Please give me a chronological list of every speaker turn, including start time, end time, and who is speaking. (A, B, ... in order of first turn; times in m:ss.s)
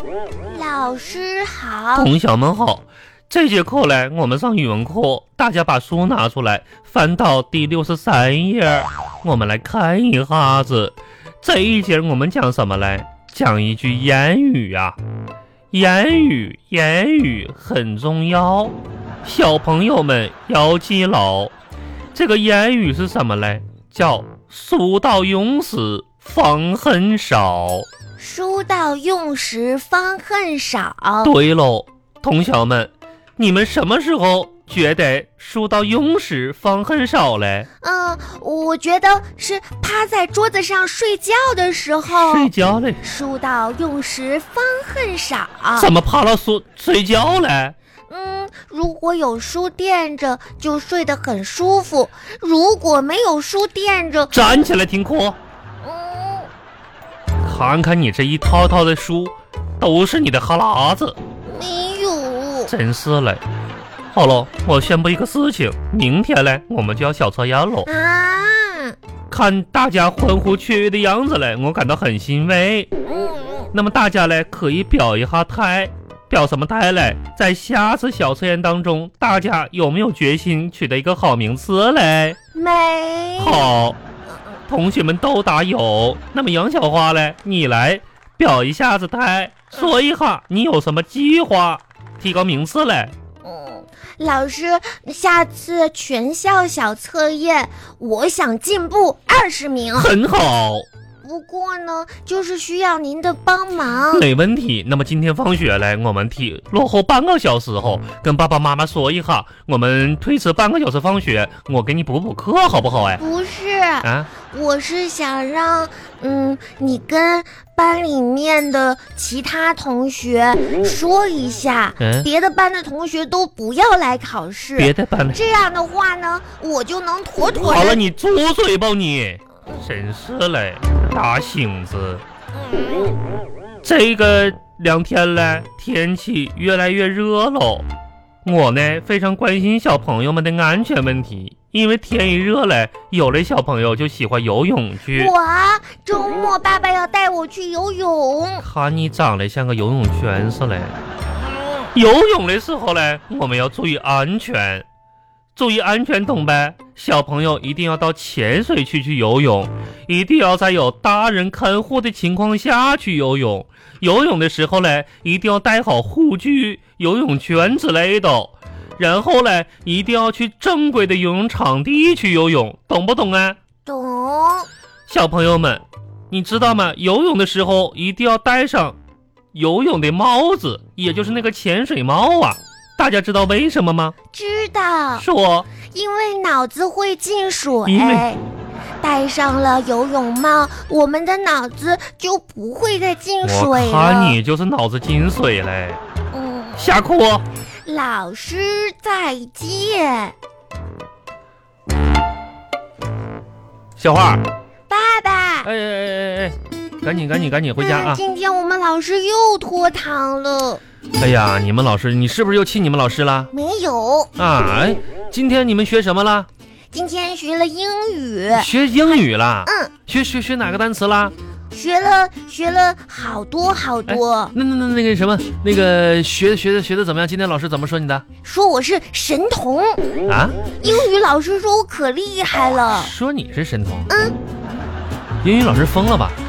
0:00.5-0:02.1 A
0:02.0-0:15.0 B
0:15.7-0:21.5 B
0:22.1-0:27.9 B
0:28.2-0:31.3 A
0:31.2-0:37.7 B
0:37.8-0:42.5 A
0:42.1-0:43.0 B
0:43.0-0:45.9 A
0:45.8-0:47.8 B
0:48.1-0:54.4 A
0:54.3-0:55.4 B
0:55.8-0:56.5 A
0:57.4-1:01.2 B
1:01.5-1:02.7 A
1:02.7-1:03.4 B
1:04.1-1:07.9 B
1:07.8-1:09.0 A
1:09.3-1:12.9 B
1:13.0-1:13.7 A
1:13.7-1:22.4 B
1:22.5-1:23.7 A
1:23.4-1:24.0 B
1:24.3-1:24.6 A
1:24.7-1:33.1 B
1:33.4-1:40.1 A
1:40.0-1:40.9 B
1:41.2-1:44.3 A
1:44.1-1:53.2 B
1:53.2-2:08.0 A
1:54.0-1:54.3 B
2:02.0-2:02.3 B
2:04.8-2:05.4 B
2:07.6-2:12.2 B
2:12.6-2:13.2 A
2:13.8-2:17.9 B
2:18.4-2:25.3 B
2:25.1-2:28.6 A
2:28.6-2:31.0 B
2:31.9-2:34.8 B
2:35.6-2:53.6 B
2:53.8-2:54.7 A
2:55.1-2:59.0 B
2:59.5-3:04.2 B
3:04.3-3:05.3 A
3:05.2-3:05.7 B
3:05.8-3:08.4 A
3:07.8-3:08.3 B
3:09.0-3:14.4 A
3:13.4-3:16.0 B
3:16.3-3:16.9 A
3:16.8-3:17.5 B
3:17.8-3:20.4 A
3:24.0-3:24.4 B
3:24.9-3:25.7 A
3:25.6-3:28.2 B
3:27.8-3:30.8 A
3:31.2-3:33.5 B
3:33.5-3:34.3 A
3:34.4-3:36.5 B
3:36.9-3:38.7 A
3:38.5-3:41.3 B
3:39.7-3:39.9 A
3:41.7-3:44.5 A
3:44.1-3:48.2 B
3:48.4-3:50.1 A
3:50.3-3:50.6 B
3:50.8-3:53.1 A
3:52.9-3:54.1 B
3:54.1-3:54.4 A
3:55.4-3:56.4 B